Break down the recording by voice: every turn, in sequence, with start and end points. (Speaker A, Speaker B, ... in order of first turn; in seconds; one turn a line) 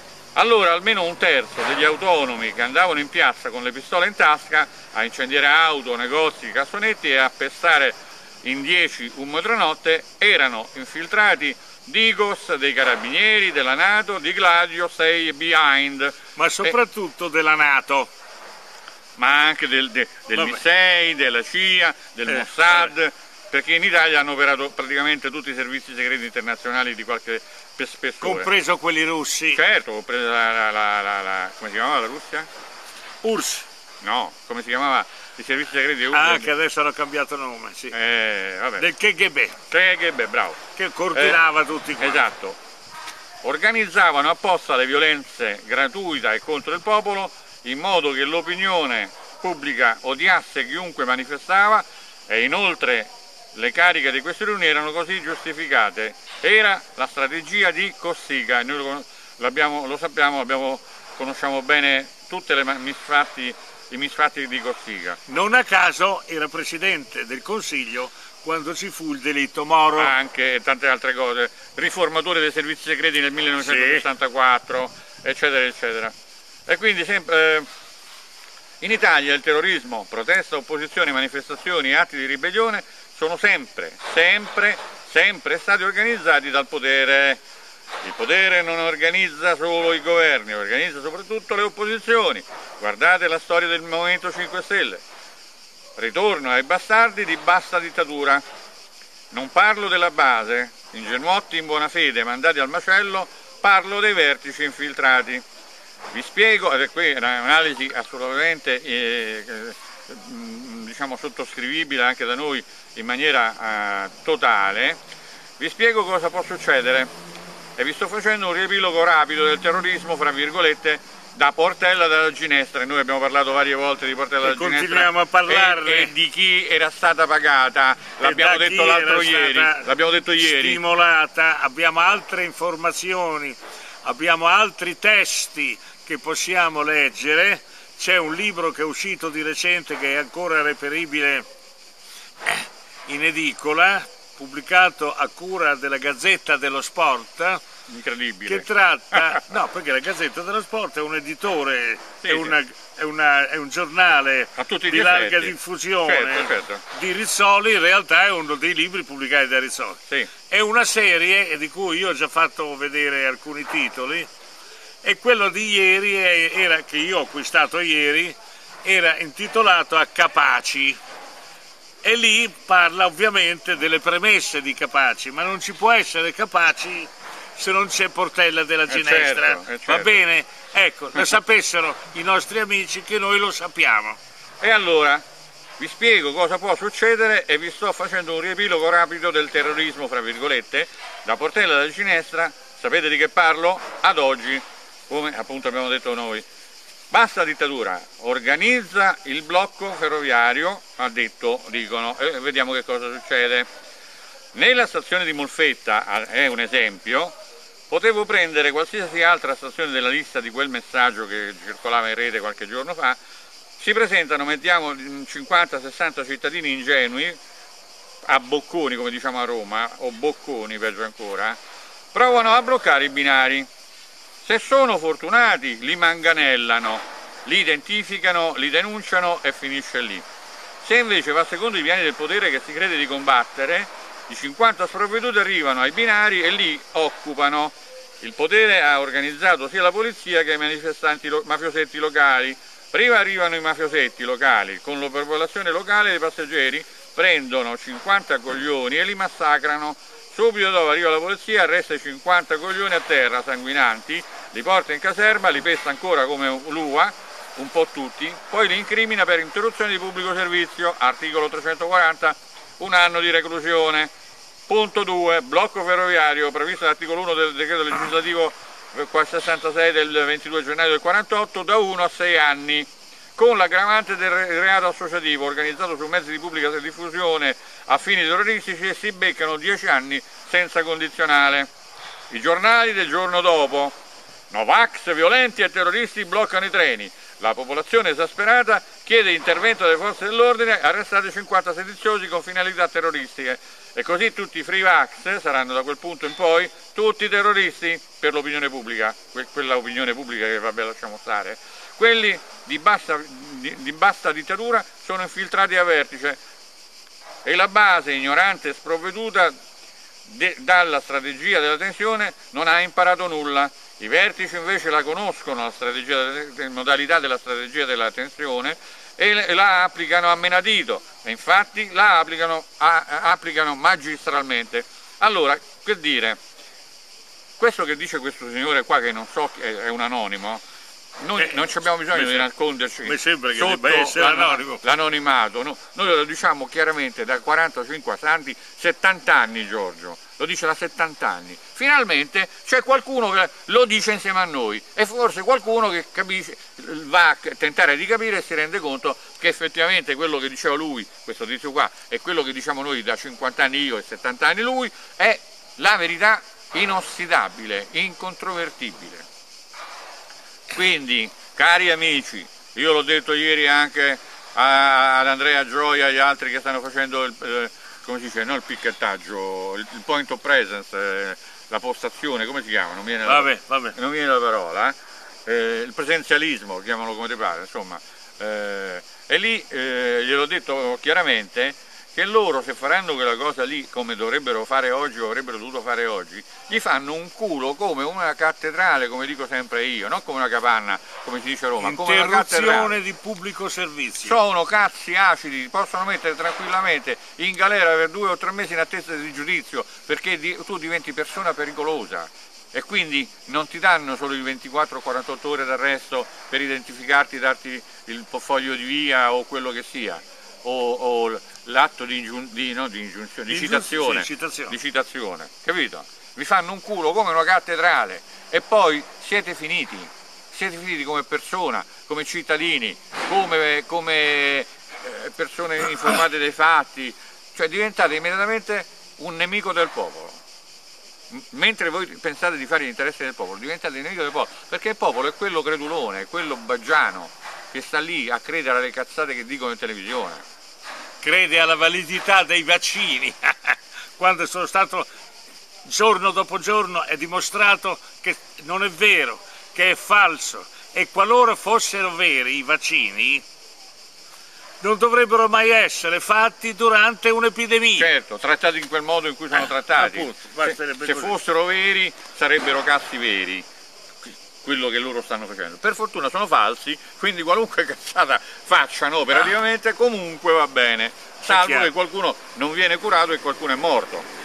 Speaker A: 0.3-16.7
Speaker B: 16.4-18.1
Speaker A: 19.2-28.5
Speaker B: 20.3-20.6
Speaker B: 22.3-22.9
Speaker B: 28.2-29.6
Speaker A: 29.5-32.5
Speaker B: 33.2-33.6
Speaker A: 34.0-36.5
Speaker B: 36.1-37.9
Speaker A: 37.9-38.9
Speaker B: 38.8-39.6
Speaker A: 39.7-40.6
Speaker B: 40.7-42.2
Speaker A: 41.1-41.4
Speaker A: 42.0-42.6
Speaker A: 43.4-65.2
Speaker B: 65.3-70.1
Speaker A: 70.0-76.1
Speaker B: 73.6-74.0
Speaker A: 76.7-77.7
Speaker A: 78.8-87.4
Speaker A: 88.0-95.0
Speaker A: 96.0-98.4
Speaker A: 99.3-105.4
Speaker A: 106.1-115.0
Speaker A: 115.6-117.1
Speaker A: 117.8-130.8
Speaker B: 124.4-126.1
Speaker B: 128.2-141.4
Speaker B: 142.4-147.6
Speaker A: 147.9-148.7
Speaker B: 148.4-164.3
Speaker A: 152.2-152.5
Speaker A: 154.6-156.8
Speaker B: 165.0-171.0
Speaker B: 172.0-184.2
Speaker A: 178.9-180.2
Speaker A: 184.6-185.2
Speaker A: 185.8-196.4
Speaker A: 197.1-203.7
Speaker A: 204.5-207.3
Speaker A: 207.9-213.2
Speaker A: 213.8-217.4
Speaker A: 218.3-221.6
Speaker A: 222.1-223.7
Speaker A: 224.4-230.2
Speaker A: 230.8-264.1
Speaker A: 264.7-281.7
Speaker A: 282.3-283.9
Speaker A: 284.5-306.4
Speaker A: 307.4-309.5
Speaker A: 310.3-326.4
Speaker A: 327.6-330.6
Speaker A: 331.2-359.2
Speaker B: 331.4-332.5
Speaker B: 333.0-334.8
Speaker A: 360.7-392.9
Speaker B: 373.2-373.9
Speaker B: 391.8-394.4
Speaker A: 394.2-430.4
Speaker B: 413.5-414.8
Speaker A: 431.3-440.4
Speaker B: 441.2-445.1
Speaker B: 445.8-453.4
Speaker B: 454.8-458.1
Speaker A: 457.9-463.6
Speaker B: 459.6-461.4
Speaker A: 464.6-474.3
Speaker B: 471.5-471.9